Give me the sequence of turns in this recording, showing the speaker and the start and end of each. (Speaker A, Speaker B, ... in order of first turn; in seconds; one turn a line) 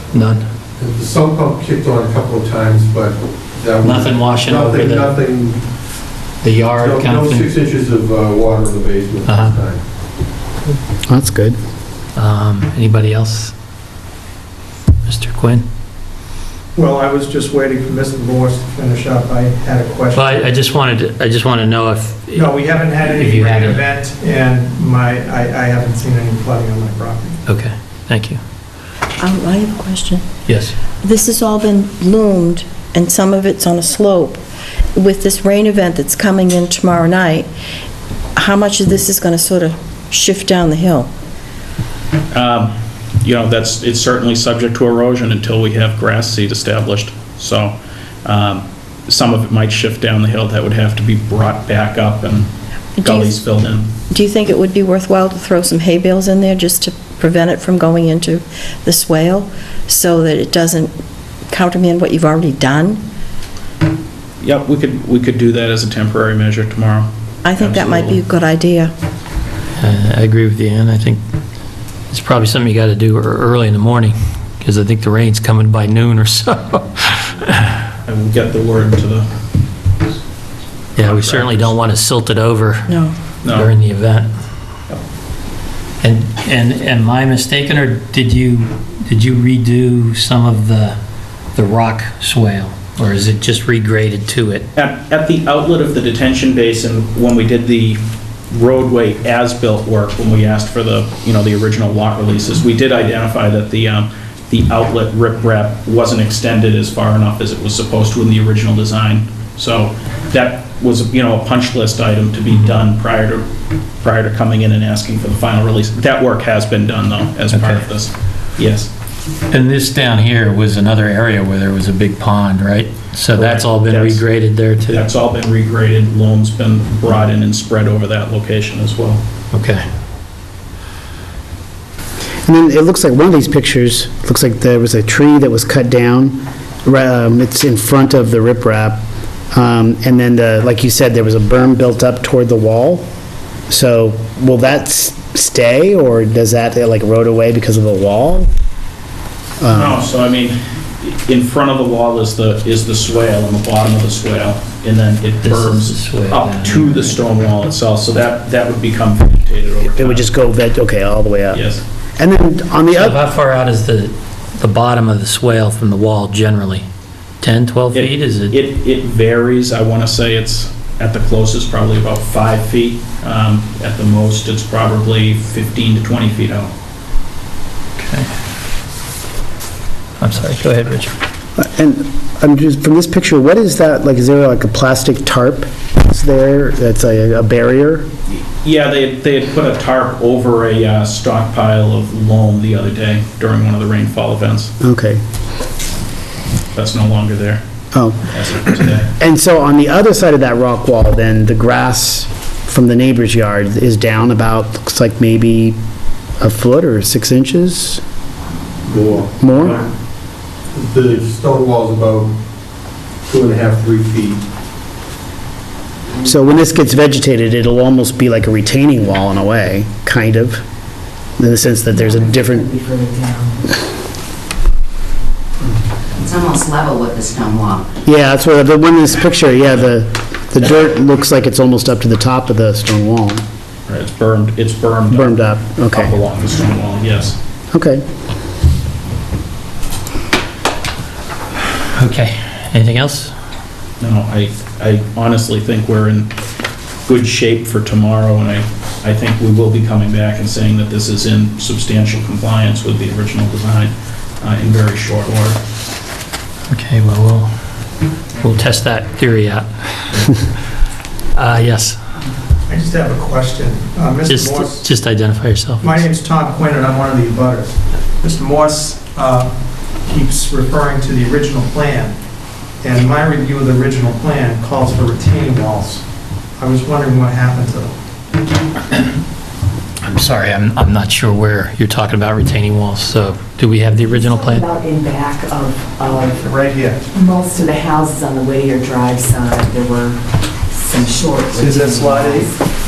Speaker A: 0.1-0.4
Speaker B: 0.8-5.7
Speaker A: 3.8-5.2
Speaker A: 6.4-7.5
Speaker B: 6.7-9.8
Speaker A: 9.2-9.6
Speaker C: 11.1-11.6
Speaker A: 12.2-13.5
Speaker A: 15.0-15.7
Speaker D: 16.8-20.6
Speaker A: 20.1-22.5
Speaker D: 22.3-27.4
Speaker A: 23.0-23.8
Speaker A: 27.5-28.4
Speaker E: 29.2-30.2
Speaker A: 30.5-30.7
Speaker E: 31.0-34.4
Speaker E: 35.0-37.5
Speaker E: 38.4-41.1
Speaker F: 42.3-52.5
Speaker E: 53.0-53.3
Speaker F: 53.0-53.9
Speaker E: 54.1-60.9
Speaker E: 61.5-63.0
Speaker F: 64.4-68.2
Speaker E: 67.4-68.9
Speaker A: 69.8-71.2
Speaker A: 72.1-77.8
Speaker F: 78.0-79.3
Speaker A: 81.0-82.9
Speaker F: 81.0-81.8
Speaker F: 83.4-83.7
Speaker A: 83.5-84.3
Speaker A: 86.0-91.0
Speaker A: 91.5-94.7
Speaker F: 94.7-113.5
Speaker F: 114.0-118.9
Speaker A: 117.5-117.9
Speaker A: 119.5-125.0
Speaker F: 123.4-124.2
Speaker F: 124.9-129.2
Speaker A: 129.5-129.8
Speaker C: 132.4-143.1
Speaker C: 143.7-148.5
Speaker C: 149.6-150.0
Speaker F: 149.7-160.3
Speaker A: 155.4-157.2
Speaker C: 159.9-161.6
Speaker F: 161.5-161.8
Speaker C: 162.2-163.2
Speaker A: 162.9-166.9
Speaker A: 167.4-168.6
Speaker F: 167.9-176.7
Speaker A: 178.0-178.3
Speaker A: 180.2-181.1
Speaker C: 181.6-188.1
Speaker F: 188.3-194.7
Speaker C: 194.8-195.2
Speaker F: 196.8-197.6
Speaker C: 197.9-198.2
Speaker F: 198.3-199.1
Speaker C: 199.1-205.8
Speaker C: 206.4-208.0
Speaker B: 208.9-209.8
Speaker C: 209.4-209.8
Speaker B: 210.7-212.3
Speaker B: 213.3-214.4
Speaker G: 216.1-216.5
Speaker C: 216.2-220.6
Speaker C: 221.4-222.7
Speaker H: 222.0-223.6
Speaker G: 226.2-227.9
Speaker C: 228.1-233.4
Speaker F: 233.9-237.4
Speaker C: 235.1-236.2
Speaker C: 237.7-238.0
Speaker A: 241.9-243.3
Speaker F: 244.0-246.3
Speaker F: 247.1-255.6
Speaker A: 256.7-257.5
Speaker A: 258.4-260.4
Speaker A: 261.3-262.0
Speaker D: 262.7-264.9
Speaker A: 264.2-266.0
Speaker D: 265.8-269.5
Speaker D: 270.0-272.2
Speaker D: 272.8-276.0
Speaker D: 276.6-277.9
Speaker A: 280.0-284.7
Speaker H: 284.6-286.3
Speaker D: 286.4-287.0
Speaker H: 287.2-290.2
Speaker H: 290.8-292.5
Speaker D: 291.6-292.5